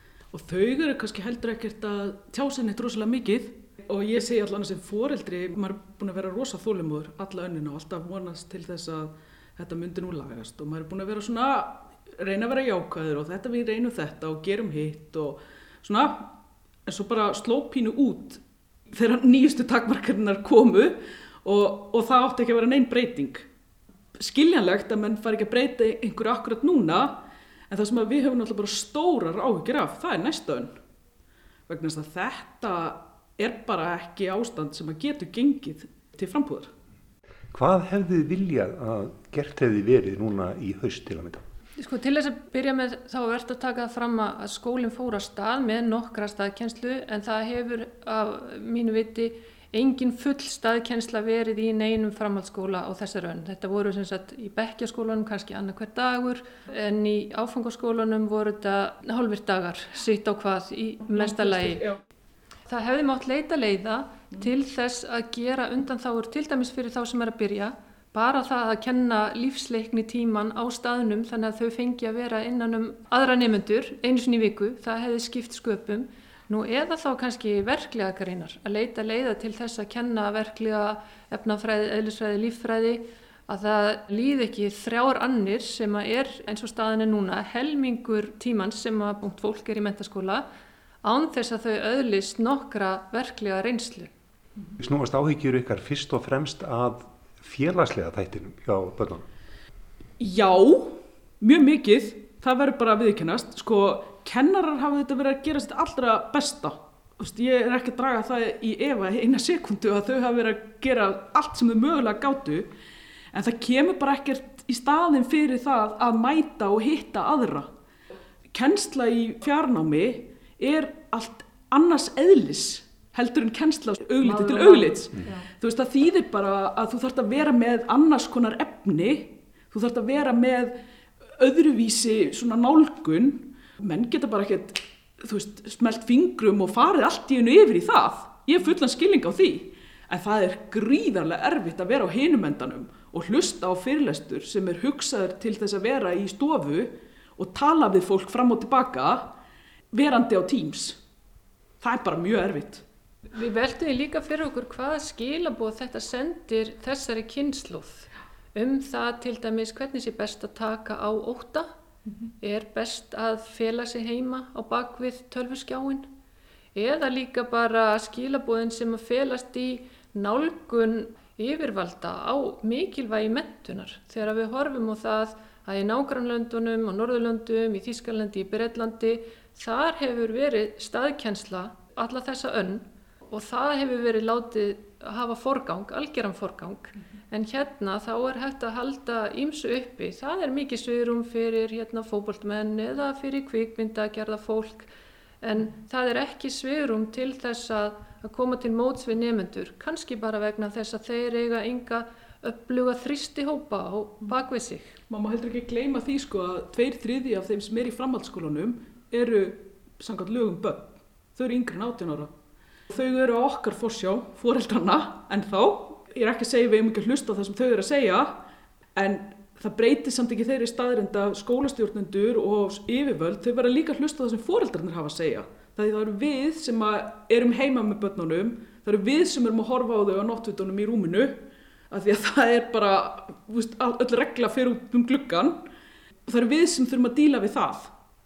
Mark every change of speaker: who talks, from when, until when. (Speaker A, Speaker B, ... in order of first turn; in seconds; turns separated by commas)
Speaker A: 0.3-23.5, Speaker A: 24.1-30.8, Speaker A: 31.7-36.7, Speaker B: 37.5-41.4, Speaker C: 41.8-61.9, Speaker A: 61.1-62.0, Speaker C: 62.7-90.5, Speaker C: 91.0-94.1, Speaker B: 94.8-99.2, Speaker A: 100.2-112.7, Speaker A: 113.3-117.7, Speaker A: 118.5-130.8, Speaker C: 124.2-125.5, Speaker A: 131.4-149.3, Speaker A: 149.9-151.0, Speaker A: 151.8-152.8, Speaker C: 153.3-161.7, Speaker C: 162.4-166.1, Speaker C: 166.7-194.9, Speaker C: 195.4-205.0, Speaker A: 205.1-212.3, Speaker A: 212.9-218.4, Speaker A: 218.9-235.7, Speaker A: 236.2-237.9